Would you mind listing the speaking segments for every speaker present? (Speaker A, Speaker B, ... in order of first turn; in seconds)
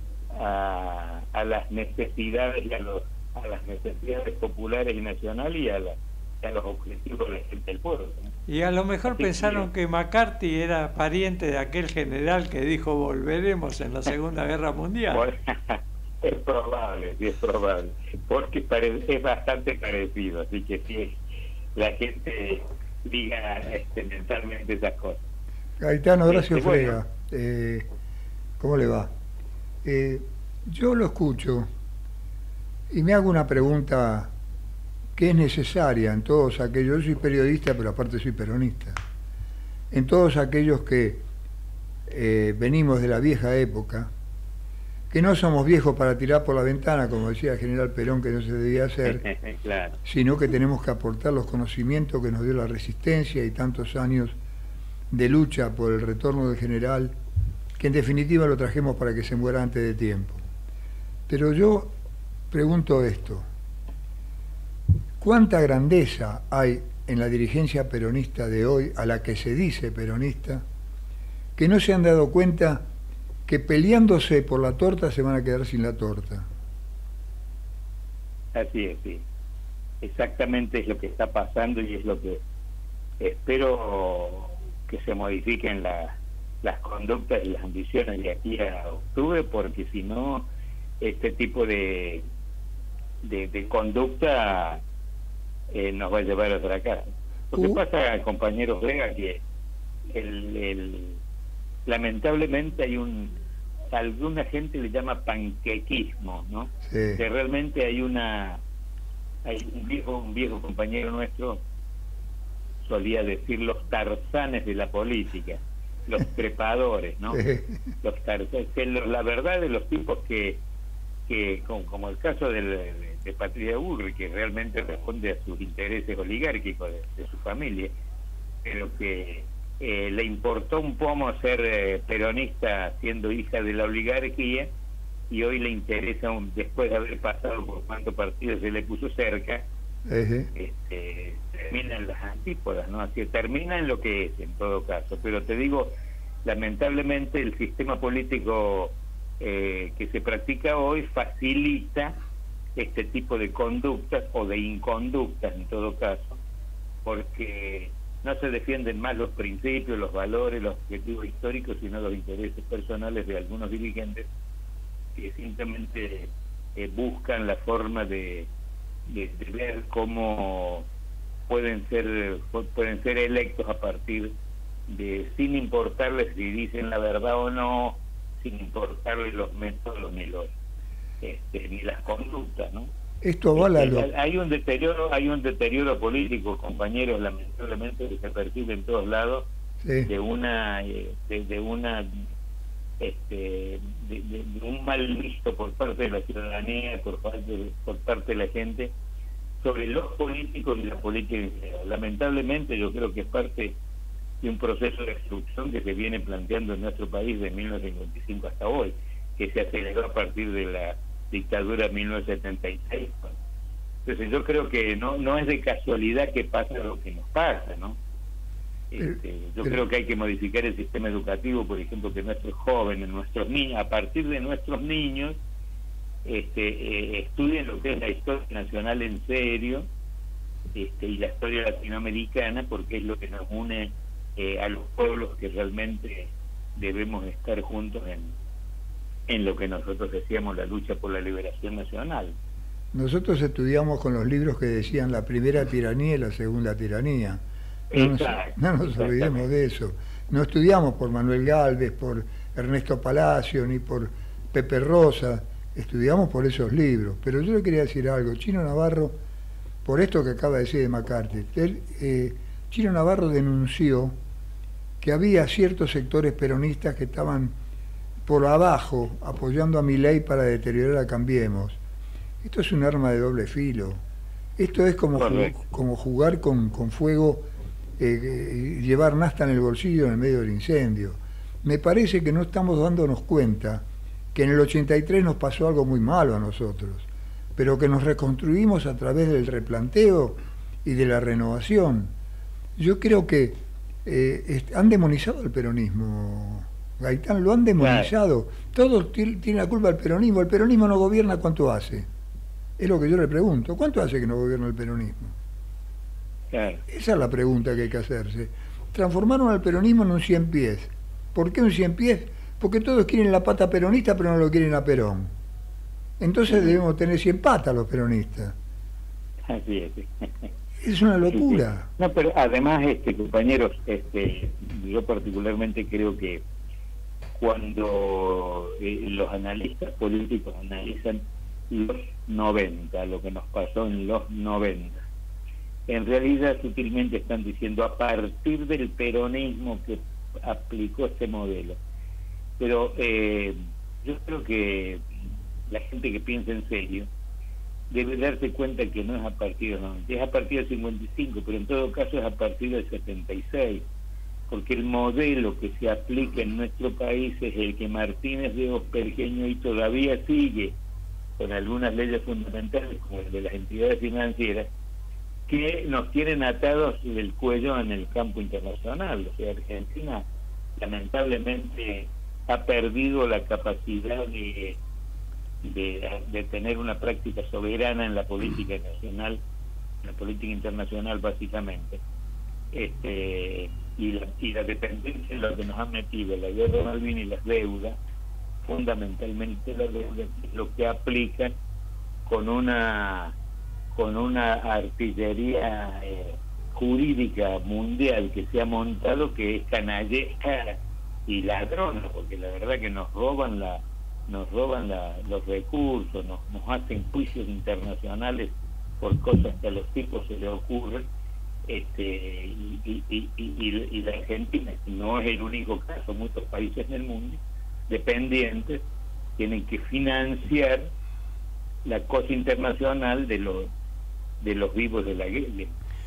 Speaker A: 0.3-8.3, 9.1-9.7, 15.1-21.2, 21.8-25.2, 26.3-27.0, 49.1-50.0, 78.5-79.2, 80.0-82.4, 83.2-90.5, 91.0-92.2, 93.2-94.8, 95.7-99.4, 100.1-101.2, 101.8-103.4, 103.9-108.6, 109.5-111.6, 112.8-117.4, 118.0-120.6, 121.3-127.9, 128.7-134.7, 135.3-139.7, 140.5-145.9, 146.4-152.2, 152.8-156.4, 157.1-164.3, 165.2-168.5, 169.1-170.9, 171.5-174.3, 174.9-180.5, 181.2-182.9, 183.6-189.5, 190.0-192.2, 193.0-198.9, 199.6-203.8, 204.4-213.3, 214.1-218.0, 218.9-225.4, 226.3-229.8, 230.7-238.3, 239.3-242.3, 247.9-249.5, 275.1-275.6, 297.8-298.1, 306.5-306.8, 316.5-316.8, 319.5-320.5, 321.3-326.4, 327.4-331.2, 331.7-335.0, 335.9-341.8, 342.6-345.0, 345.7-347.1, 347.9-353.9, 354.5-360.8, 361.4-364.7, 365.5-370.2, 370.8-374.8, 375.6-379.4, 380.0-382.0, 382.7-388.0, 388.6-391.5, 392.2-393.4, 393.9-411.0, 411.7-417.4, 417.9-418.8, 419.4-420.9, 421.9-423.7, 424.4-425.7
Speaker B: 8.5-15.2
Speaker C: 25.8-27.9, 28.6-29.1, 29.8-31.7, 32.9-34.3, 35.1-39.0, 39.9-41.2, 42.1-44.1, 45.1-49.2, 50.0-54.3, 55.1-57.1, 57.8-60.4, 61.3-61.9, 62.5-63.5, 65.2-70.7, 71.6-72.9, 73.5-76.5, 106.8-107.2, 117.3-117.8, 140.1-140.5, 183.2-184.1, 189.8-190.1, 219.0-219.8, 242.9-247.4, 247.9-259.2, 259.9-264.1, 265.0-267.5, 268.2-271.8, 272.4-274.0, 274.6-277.5, 278.0-292.1, 292.8-302.1, 302.8-305.3, 306.9-315.3, 316.2-318.5, 320.8-321.9